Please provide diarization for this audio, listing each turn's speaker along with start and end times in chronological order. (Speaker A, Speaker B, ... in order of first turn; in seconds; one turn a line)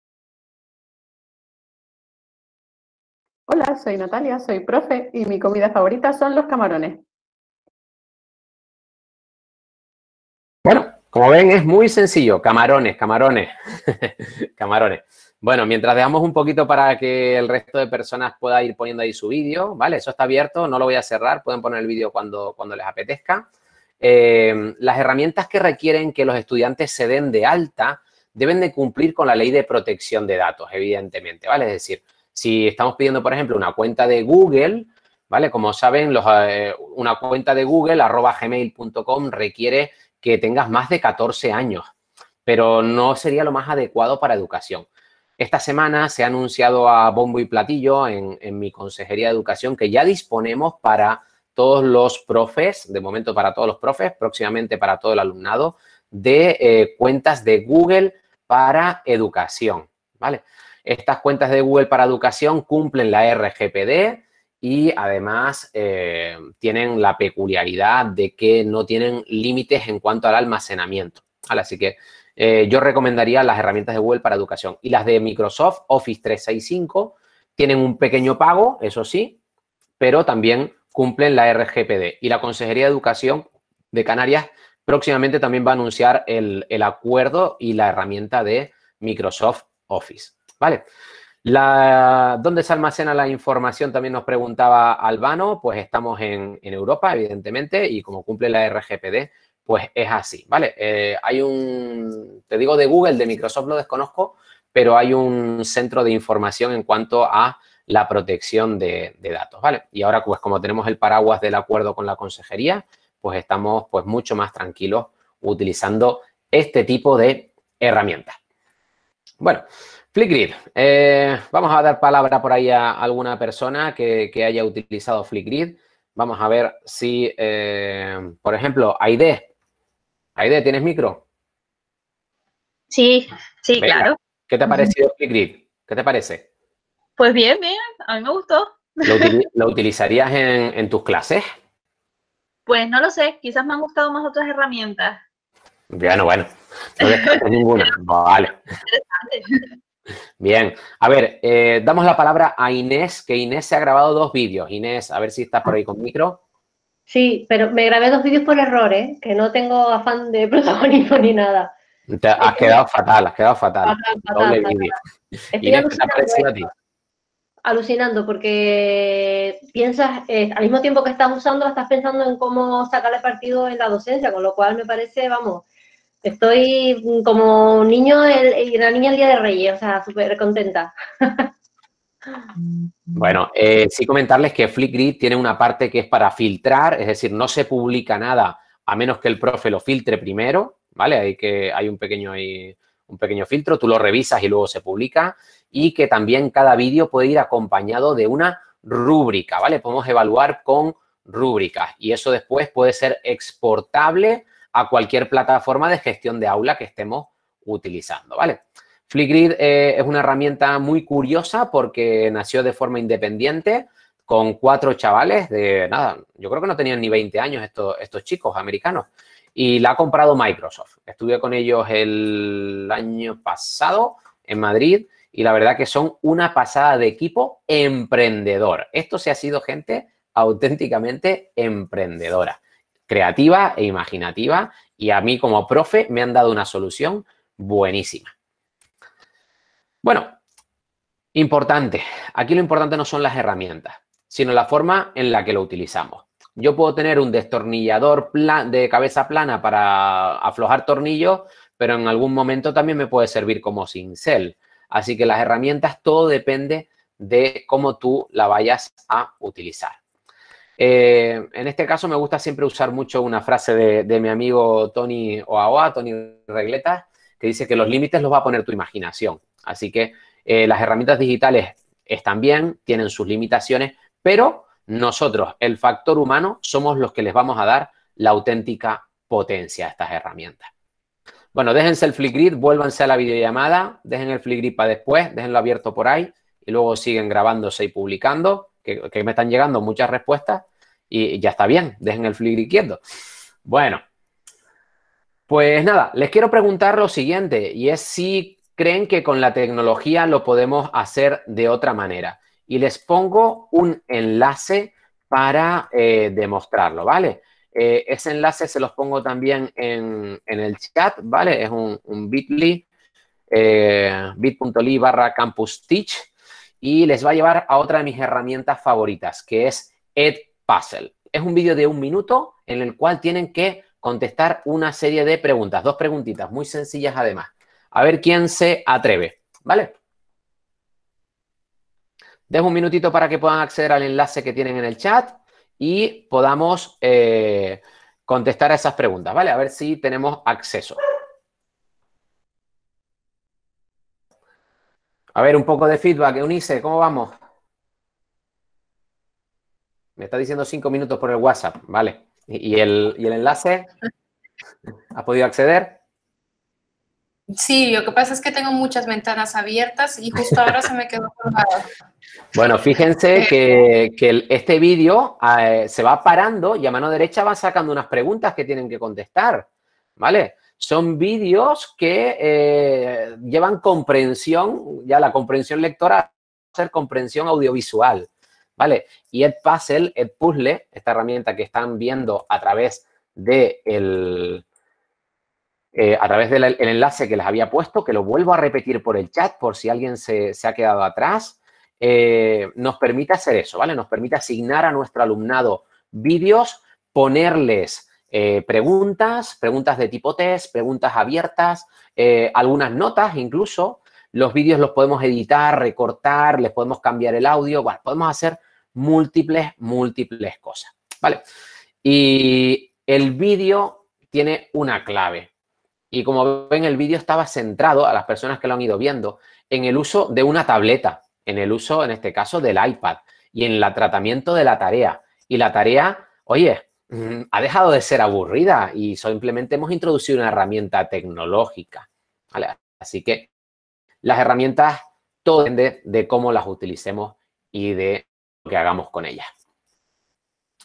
Speaker A: 3.5-7.0
Speaker B: 10.6-23.5
Speaker B: 24.0-41.9
Speaker B: 42.5-44.9
Speaker B: 45.4-79.4
Speaker B: 80.0-90.8
Speaker B: 91.4-118.4
Speaker B: 119.4-129.5
Speaker B: 130.4-131.2
Speaker C: 132.9-134.2
Speaker B: 133.8-136.4
Speaker C: 137.2-139.3
Speaker B: 139.1-141.4
Speaker C: 142.7-145.2
Speaker B: 145.9-148.6
Speaker C: 148.9-149.4
Speaker B: 150.4-156.4
Speaker D: 157.1-161.7
Speaker B: 162.1-164.9
Speaker D: 162.4-162.8
Speaker D: 163.8-165.0
Speaker D: 165.6-166.6
Speaker B: 165.6-166.7
Speaker D: 167.7-175.7
Speaker D: 176.2-181.3
Speaker B: 183.1-238.3
Speaker B: 240.0-240.4
Speaker B: 241.3-260.0
Speaker B: 260.8-280.7
Speaker B: 281.5-293.0
Speaker B: 293.7-294.0
Speaker B: 295.5-312.9
Speaker B: 313.5-316.3
Speaker B: 316.8-329.9
Speaker B: 332.5-341.0
Speaker B: 345.4-347.4
Speaker B: 350.2-353.9
Speaker B: 355.1-356.0
Speaker E: 357.5-361.9
Speaker B: 362.5-369.7
Speaker B: 370.2-384.6
Speaker B: 385.9-411.4
Speaker B: 412.0-415.5
Speaker B: 416.1-433.5
Speaker B: 434.2-439.5